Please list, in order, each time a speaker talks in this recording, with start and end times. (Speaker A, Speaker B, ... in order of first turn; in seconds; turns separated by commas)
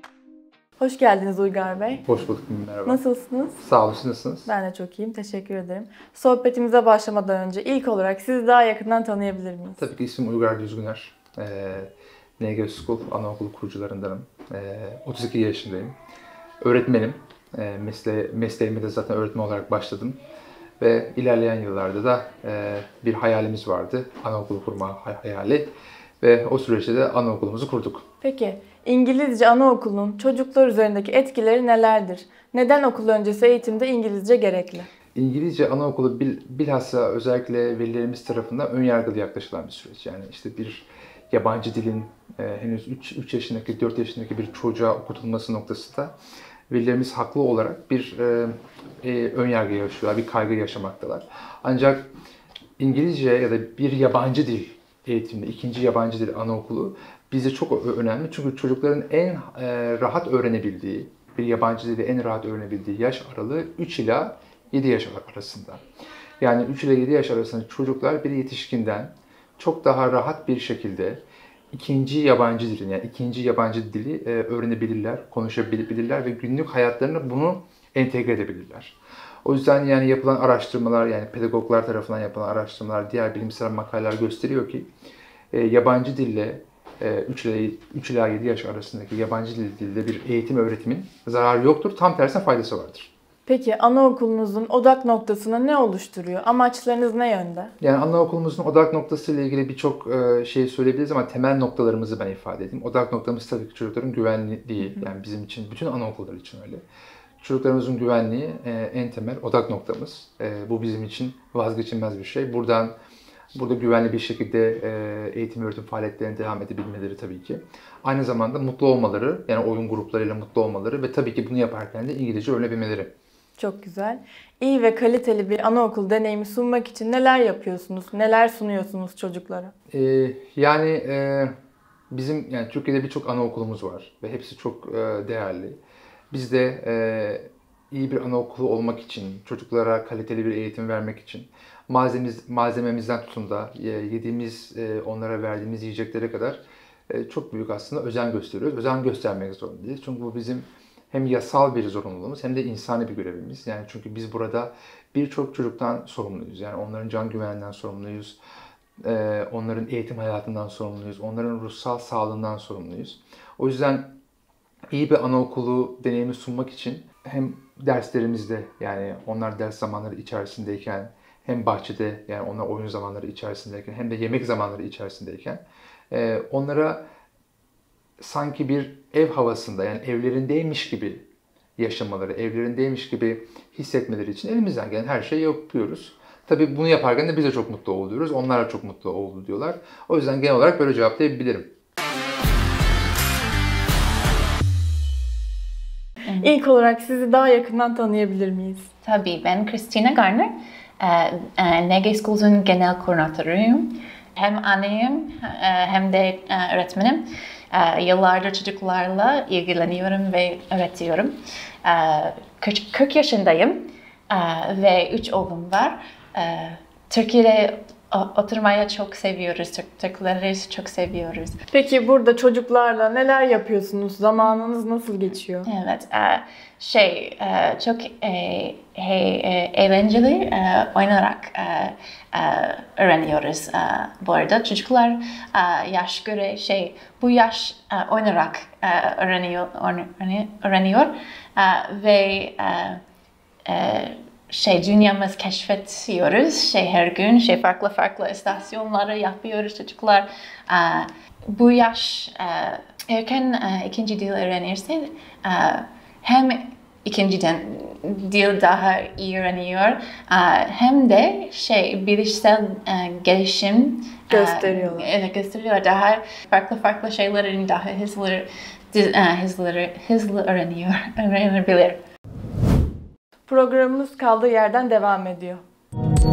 Speaker A: 0.8-2.0, Speaker B: 2.1-3.0, Speaker A: 2.9-3.6, Speaker B: 3.6-4.5, Speaker A: 4.5-9.8, Speaker B: 9.8-15.9, Speaker B: 16.6-20.2, Speaker B: 20.8-25.7, Speaker B: 26.2-28.0, Speaker A: 28.2-34.9, Speaker B: 35.1-46.1, Speaker B: 46.7-52.1, Speaker B: 52.8-65.8, Speaker B: 66.4-84.9, Speaker B: 85.5-93.1, Speaker A: 93.5-97.7, Speaker B: 97.8-106.8, Speaker B: 107.4-112.9, Speaker B: 113.5-123.1, Speaker A: 123.6-129.7, Speaker B: 129.9-131.5, Speaker B: 132.1-135.8, Speaker B: 136.3-158.4, Speaker B: 159.0-164.2, Speaker B: 164.9-177.0, Speaker B: 178.2-181.2, Speaker B: 181.8-191.7, Speaker A: 196.4-198.9, Speaker C: 199.0-221.6, Speaker A: 221.7-225.7, Speaker C: 225.7-243.0, Speaker C: 243.7-272.0, Speaker A: 264.3-265.1, Speaker A: 273.5-275.6